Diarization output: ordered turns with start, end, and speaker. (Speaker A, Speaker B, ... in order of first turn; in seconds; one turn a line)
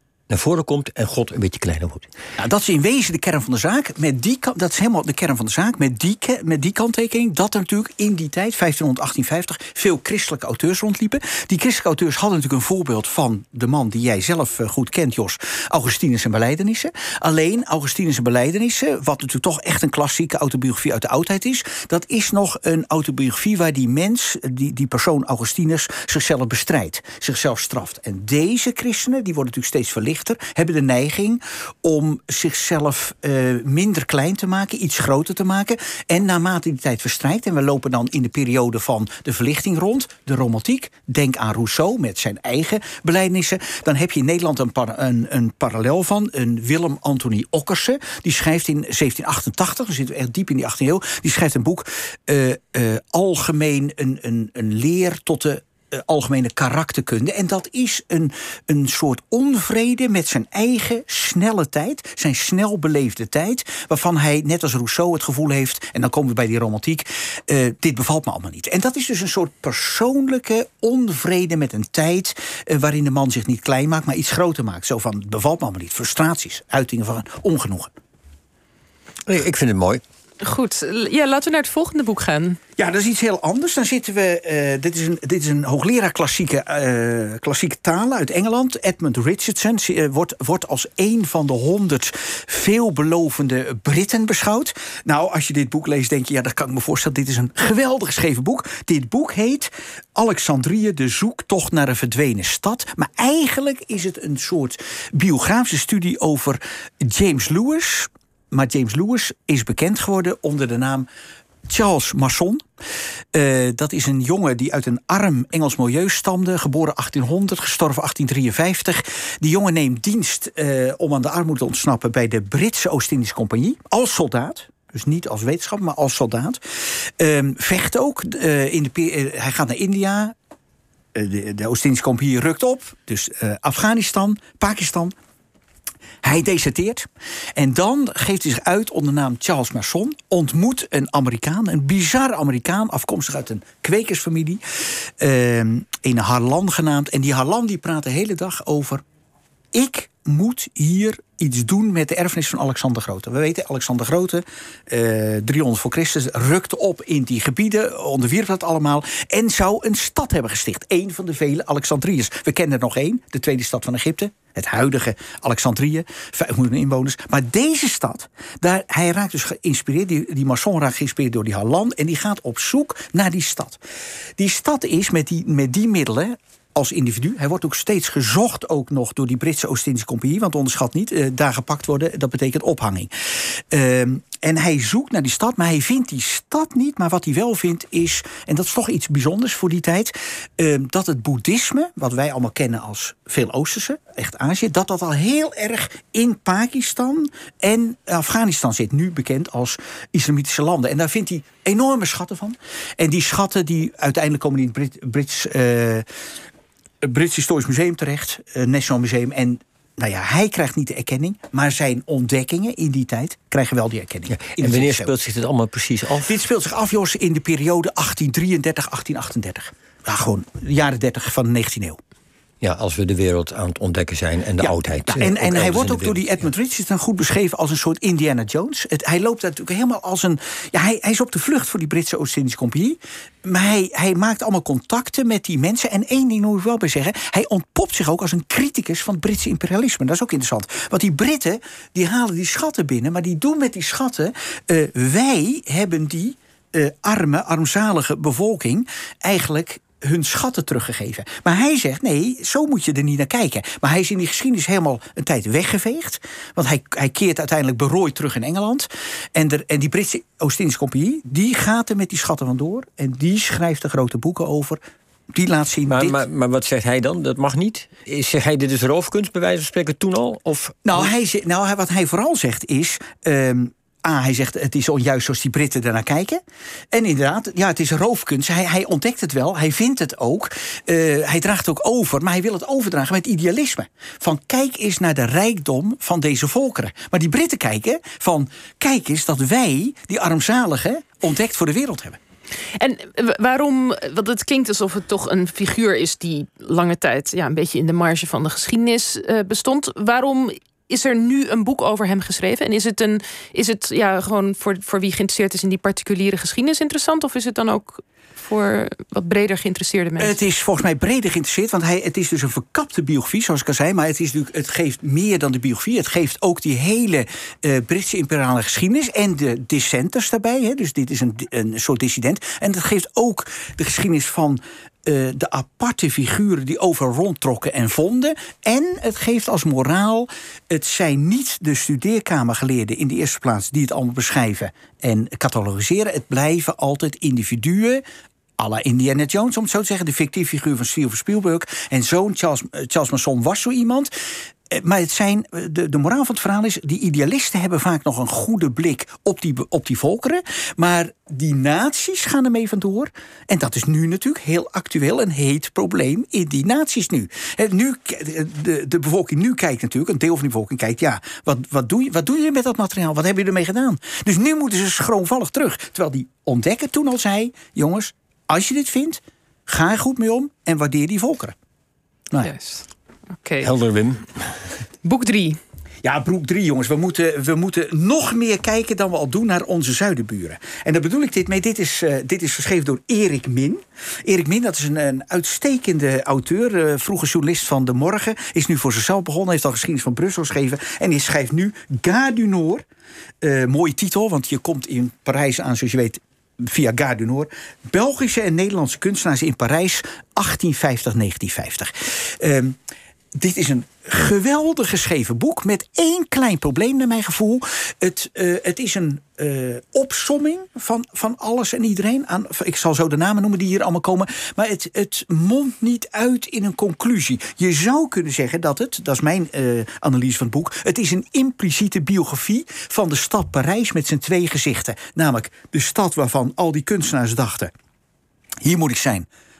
Speaker A: 0.3-2.1
Speaker B: 2.4-77.9
Speaker A: 79.3-80.0
Speaker C: 80.4-82.6
Speaker B: 82.8-111.1
Speaker B: 111.7-112.6
Speaker B: 113.3-126.6
Speaker B: 127.2-130.3
Speaker B: 131.1-135.1
Speaker B: 136.2-144.6
Speaker B: 145.2-149.0
Speaker B: 149.7-173.8
Speaker B: 174.4-206.1
Speaker B: 207.0-215.1
Speaker A: 214.3-216.3
Speaker B: 216.2-222.0
Speaker A: 222.6-226.3
Speaker B: 224.6-264.8
Speaker B: 265.3-266.2
Speaker A: 265.9-271.1
Speaker B: 270.8-276.4
Speaker B: 276.9-292.2
Speaker C: 292.8-310.4
Speaker B: 310.2-338.0
Speaker B: 338.6-344.1
Speaker B: 344.7-371.5
Speaker C: 372.4-373.7
Speaker A: 373.6-374.5
Speaker C: 375.0-375.6
Speaker B: 376.0-392.8
Speaker B: 393.4-402.8
Speaker B: 403.4-427.7
Speaker B: 428.6-429.3